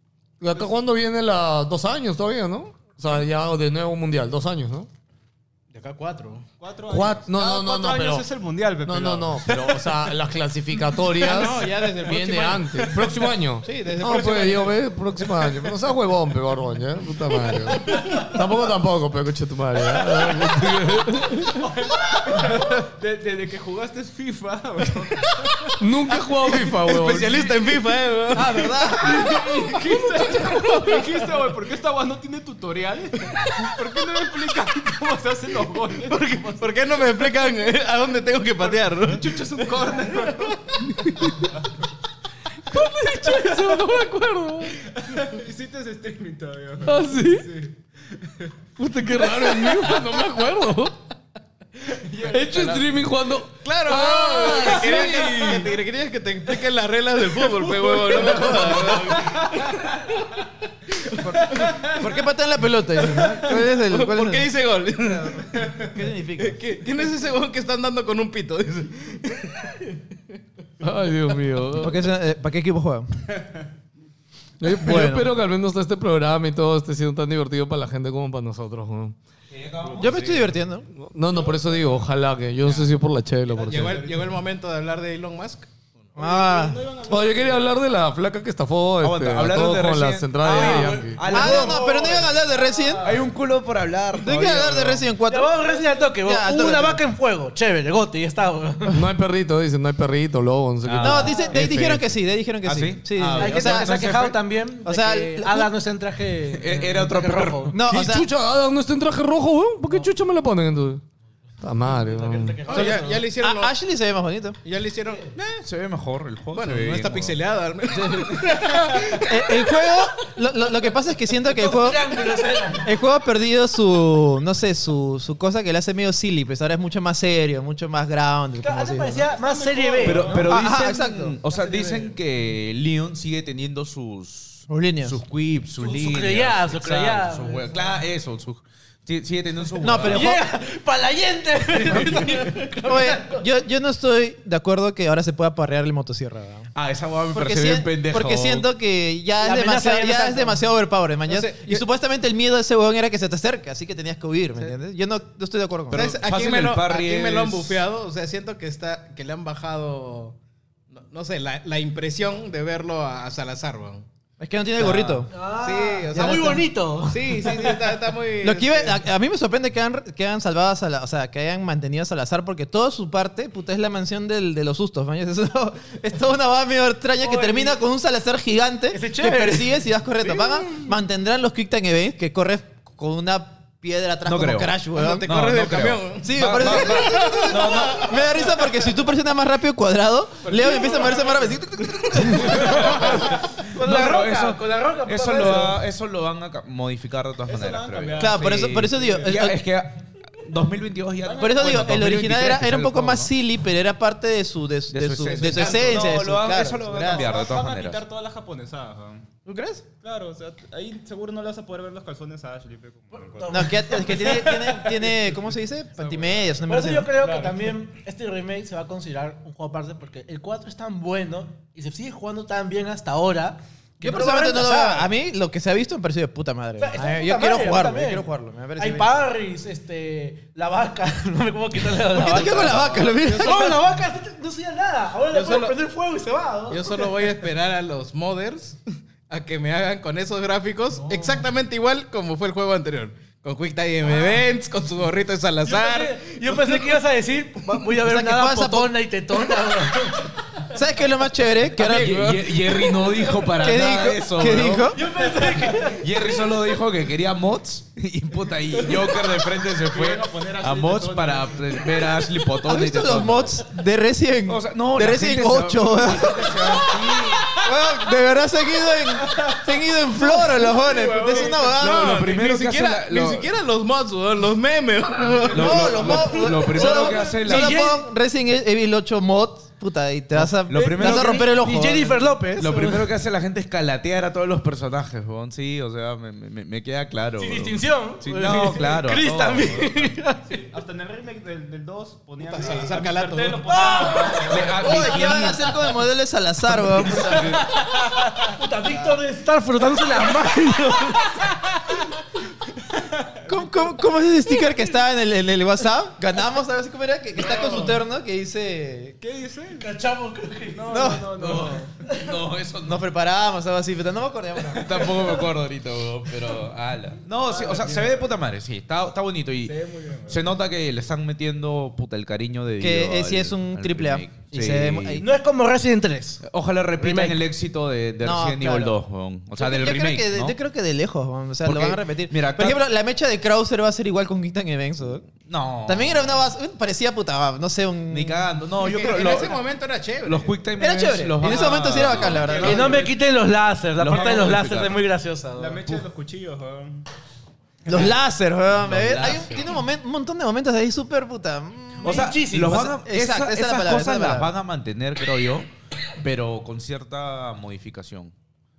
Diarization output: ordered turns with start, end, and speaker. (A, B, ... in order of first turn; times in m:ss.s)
0:00.4-0:04.9 A
0:05.7-0:06.4 B
0:06.6-0:09.6 C
0:06.9-0:08.2 A
0:08.8-0:21.6 A
0:11.1-0:14.8 B
0:18.0-0:18.3 C
0:21.4-0:25.7 C
0:25.8-0:27.5 A
0:26.8-0:28.8 B
0:28.3-0:29.3 D
0:28.9-0:37.3 C
0:36.5-0:39.4 B
0:38.6-0:41.8 C
0:40.8-0:41.4 B
0:42.7-0:44.8 A
0:43.2-0:43.9 C
0:44.9-0:48.5 C
0:46.8-0:47.5 A
0:48.8-0:51.0 A
0:49.1-0:50.1 C
0:51.8-0:53.0 C
0:52.2-0:55.7 A
0:53.6-0:59.8 B
0:57.4-0:59.4 A
0:58.9-0:59.7 C
1:00.9-1:01.8 B
1:01.2-1:04.5 D
1:01.3-1:02.1 C
1:03.1-1:05.7 B
1:05.6-1:05.9 C
1:05.8-1:06.6 D
1:06.4-1:10.0 B
1:10.8-1:12.0 A
1:11.8-1:13.1 D
1:14.6-1:19.1 A
1:14.8-1:15.3 D
1:19.5-1:20.6 E
1:19.9-1:20.9 D
1:21.0-1:24.0 A
1:21.3-1:22.0 C
1:23.5-1:26.1 B
1:23.6-1:24.4 C
1:26.2-1:27.9 C
1:26.2-1:26.8 D
1:27.1-1:31.2 A
1:29.0-1:32.0 E
1:30.5-1:31.6 F
1:31.2-1:33.2 D
1:31.5-1:32.3 C
1:32.9-1:33.2 C
1:33.0-1:35.1 E
1:34.2-1:37.0 D
1:35.3-1:39.0 F
1:38.9-1:42.0 A
1:40.8-1:41.3 E
1:41.0-1:44.0 D
1:42.6-1:44.4 E
1:43.4-1:47.7 F
1:44.8-1:45.7 D
1:46.5-1:47.8 E
1:47.7-1:48.3 D
1:47.9-1:51.0 A
1:51.6-1:52.6 A
1:51.8-1:53.2 F
1:52.7-1:53.7 B
1:52.7-1:54.6 D
1:54.6-1:55.6 B
1:55.6-1:57.4 E
1:56.5-1:59.3 B
1:58.1-2:02.1 D
2:01.4-2:02.9 F
2:02.8-2:09.3 D
2:08.6-2:10.4 F
2:09.2-2:10.6 C
2:10.0-2:20.3 E
2:10.3-2:11.4 D
2:11.6-2:12.0 F
2:14.7-2:15.2 D
2:15.8-2:17.7 F
2:19.8-2:20.4 D
2:20.0-2:23.4 F
2:21.7-2:22.6 E
2:22.8-2:26.7 D
2:26.7-2:28.7 E
2:27.3-2:36.0 D
2:29.4-2:30.6 F
2:31.3-2:31.8 B
2:35.9-2:37.8 E
2:35.9-2:40.4 B
2:40.9-2:44.0 B
2:44.4-2:45.3 D
2:44.8-2:49.0 B
2:45.3-2:47.7 F
2:48.4-3:05.3 D
2:57.2-2:57.8 F
2:58.9-2:59.8 F
3:04.2-3:08.3 E
3:04.9-3:08.5 B
3:06.2-3:13.1 D
3:10.5-3:11.6 C
3:12.5-3:15.8 F
3:12.5-3:23.3 E
3:17.4-3:19.4 C
3:18.2-3:19.6 D
3:21.2-3:22.0 C
3:21.4-3:27.3 D
3:24.9-3:28.0 E
3:25.6-3:26.1 C
3:26.9-3:29.2 C
3:29.4-3:29.8 D
3:30.0-3:34.5 C
3:33.1-3:35.0 F
3:33.5-3:37.2 D
3:36.0-3:36.6 C
3:36.7-3:45.1 F
3:37.2-3:37.7 C
3:44.0-3:49.2 D
3:46.8-3:57.1 F
3:52.1-3:53.8 D
3:52.6-3:53.8 B
3:55.3-3:55.8 B
3:56.7-4:07.0 B
4:01.0-4:01.4 F
4:05.6-4:10.3 F
4:08.0-4:09.0 D
4:10.7-4:12.4 D
4:11.8-4:12.5 A
4:11.8-4:14.9 E
4:13.5-4:15.0 D
4:14.9-4:16.0 F
4:15.2-4:16.0 C
4:15.9-4:23.6 E
4:18.7-4:22.3 C
4:22.6-4:26.8 D
4:24.5-4:27.5 E
4:27.6-4:32.2 D
4:29.2-4:31.8 C
4:31.8-4:36.0 B
4:31.8-4:33.5 E
4:35.4-4:36.3 C
4:35.5-4:37.8 E
4:35.5-4:42.2 D
4:36.6-4:38.0 F
4:40.4-4:41.5 E
4:40.7-4:43.1 F
4:42.6-4:50.1 E
4:47.4-4:50.4 F
4:50.4-4:55.0 C
4:52.5-4:53.6 B
4:53.6-4:54.5 F
4:54.4-4:55.7 E
4:54.8-4:57.6 D
4:57.1-4:57.8 F
4:57.2-4:57.6 E
4:58.1-4:58.4 C
4:58.4-5:01.7 F
5:02.9-5:03.9 C
5:03.4-5:09.2 D
5:07.4-5:08.0 C
5:09.2-5:09.9 C
5:09.8-5:12.1 F
5:10.7-5:12.0 C
5:10.9-5:11.7 D
5:11.4-5:13.1 E
5:12.8-5:15.2 D
5:14.7-5:25.2 E
5:17.4-5:18.3 C
5:19.6-5:20.5 C
5:22.8-5:25.2 D
5:25.2-5:26.4 F
5:26.4-5:30.6 E
5:27.0-5:27.4 F
5:28.2-5:29.0 D
5:29.5-5:35.3 D
5:31.6-5:32.8 E
5:35.4-5:36.4 E
5:35.8-5:38.5 D
5:38.1-5:39.6 E
5:38.8-5:40.6 B
5:40.2-5:43.0 E
5:40.8-5:43.0 D
5:41.4-5:42.5 B
5:42.0-5:43.2 C
5:42.6-5:45.9 F
5:44.0-5:45.0 E
5:44.1-5:44.6 C
5:45.6-5:47.1 C
5:47.8-5:54.5 D
5:48.8-5:49.6 E
5:52.0-5:52.9 F
5:52.0-5:58.3 E